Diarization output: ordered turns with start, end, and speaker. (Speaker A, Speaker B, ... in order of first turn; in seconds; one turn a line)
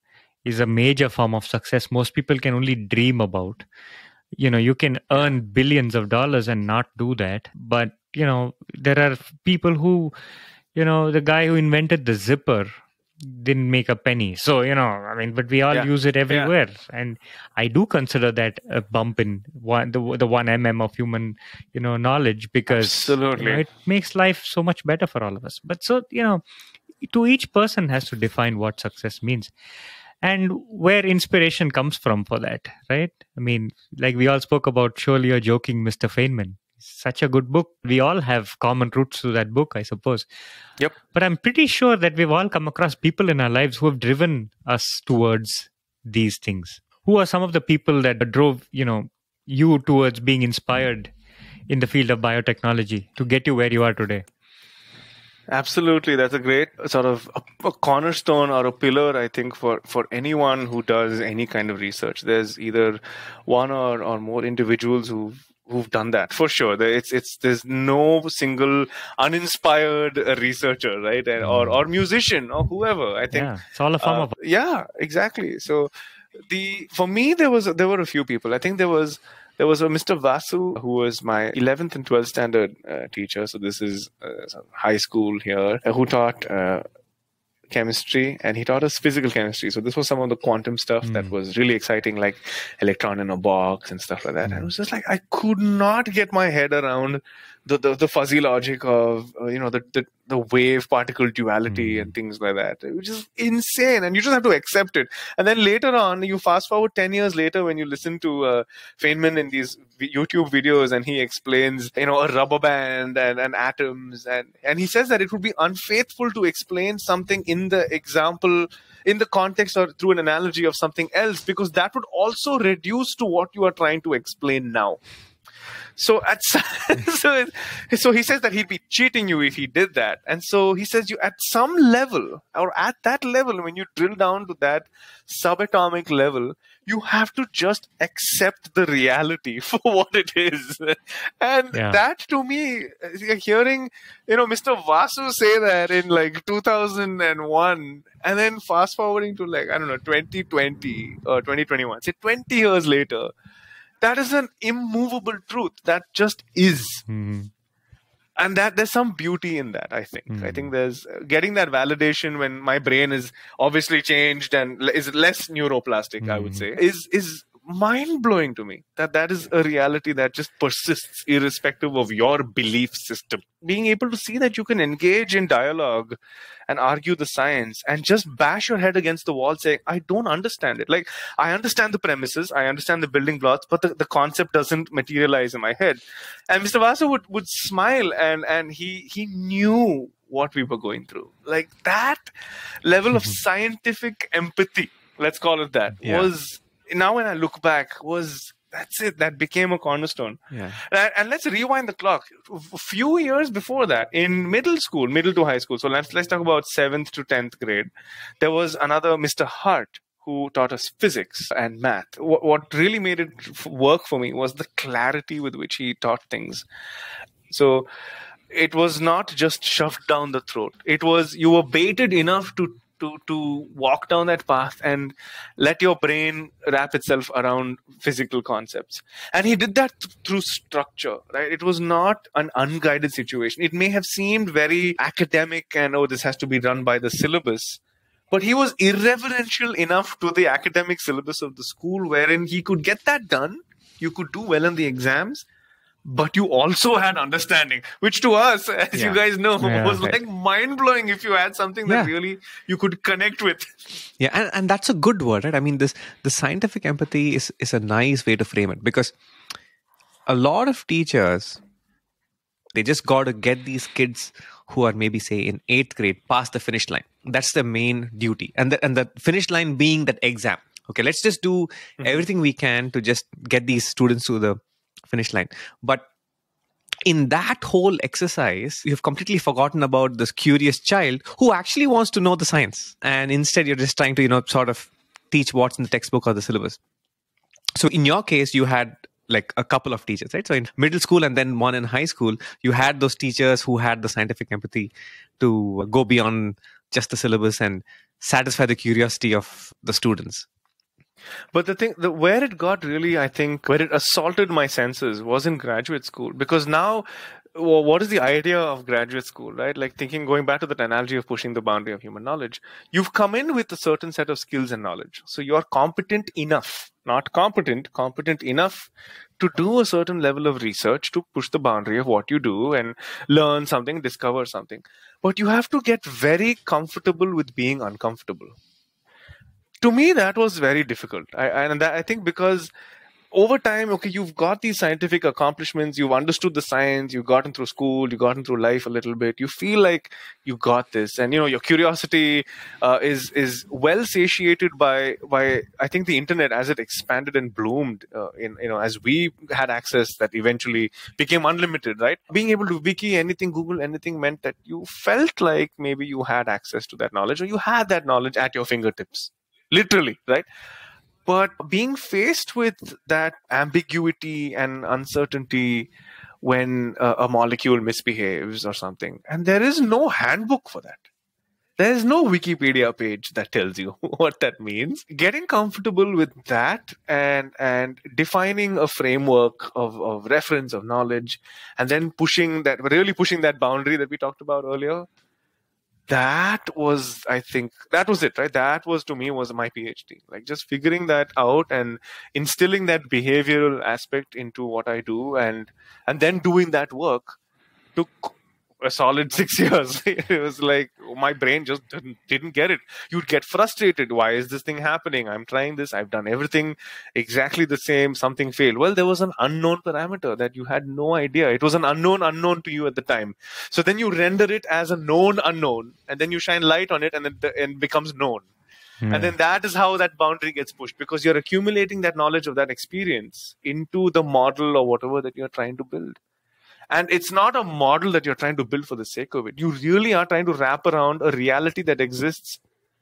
Speaker A: 0.4-3.6
Speaker A: 4.4-10.1
Speaker A: 10.7-26.4
Speaker B: 15.7-16.5
Speaker B: 22.7-23.6
Speaker A: 27.0-29.5
Speaker A: 30.2-40.2
Speaker A: 41.1-51.1
Speaker A: 51.7-54.2
Speaker B: 55.5-75.9
Speaker A: 71.4-71.8
Speaker A: 73.3-74.3
Speaker B: 76.5-86.8
Speaker B: 87.7-125.0
Speaker A: 91.0-91.3
Speaker A: 101.7-102.1
Speaker B: 126.0-153.3
Speaker A: 141.7-142.0
Speaker B: 154.0-157.0
Speaker A: 157.1-157.5
Speaker B: 158.4-192.3
Speaker A: 160.3-160.7
Speaker A: 166.2-166.7
Speaker B: 192.8-207.9
Speaker C: 196.0-196.3
Speaker C: 200.5-200.8
Speaker B: 208.4-216.6
Speaker B: 217.5-217.9
Speaker B: 218.5-245.4
Speaker B: 246.1-253.8
Speaker A: 249.6-250.1
Speaker C: 251.8-252.1
Speaker C: 254.2-259.1
Speaker C: 260.3-261.6
Speaker C: 262.7-276.1
Speaker C: 277.1-286.8
Speaker C: 287.8-300.5
Speaker B: 301.5-328.6
Speaker B: 329.8-332.7
Speaker B: 333.3-360.5
Speaker B: 361.2-365.9
Speaker B: 366.4-371.0
Speaker B: 371.8-385.1
Speaker B: 386.1-397.4
Speaker B: 397.9-418.5
Speaker A: 419.0-419.3
Speaker B: 419.1-426.2
Speaker B: 426.9-432.6